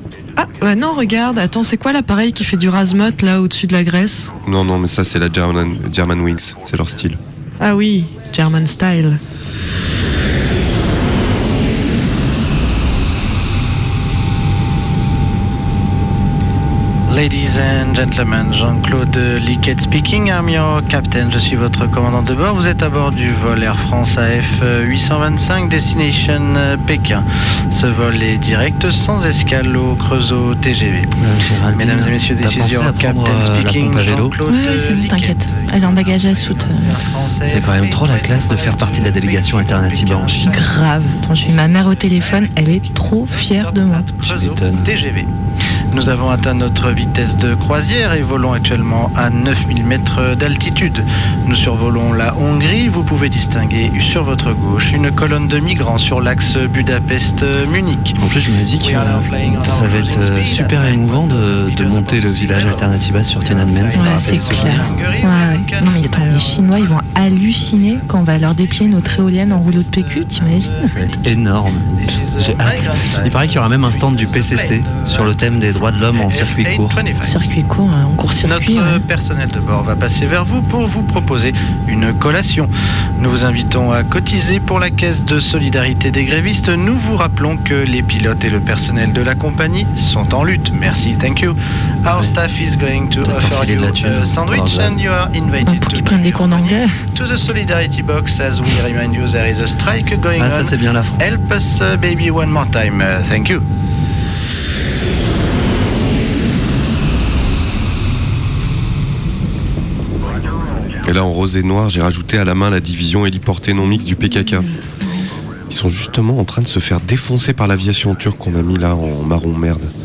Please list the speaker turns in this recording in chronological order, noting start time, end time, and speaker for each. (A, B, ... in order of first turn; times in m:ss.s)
0:00.4-0:04.3 A
0:04.4-0:07.2 B
0:07.6-0:09.2 A
0:17.1-0:31.1 C
0:31.2-0:34.4 D
0:31.7-0:45.3 C
0:34.5-0:36.9 E
0:37.4-0:40.6 D
0:40.5-0:44.2 E
0:44.2-0:44.9 D
0:45.9-0:58.2 C
0:58.2-1:05.1 D
0:58.8-1:17.4 C
1:04.0-1:10.9 E
1:10.9-1:17.0 D
1:17.2-1:19.0 E
1:18.4-1:43.6 C
1:33.2-1:35.0 D
1:35.6-1:36.9 E
1:40.4-1:41.4 D
1:51.0-1:54.7 B
1:55.7-1:59.9 B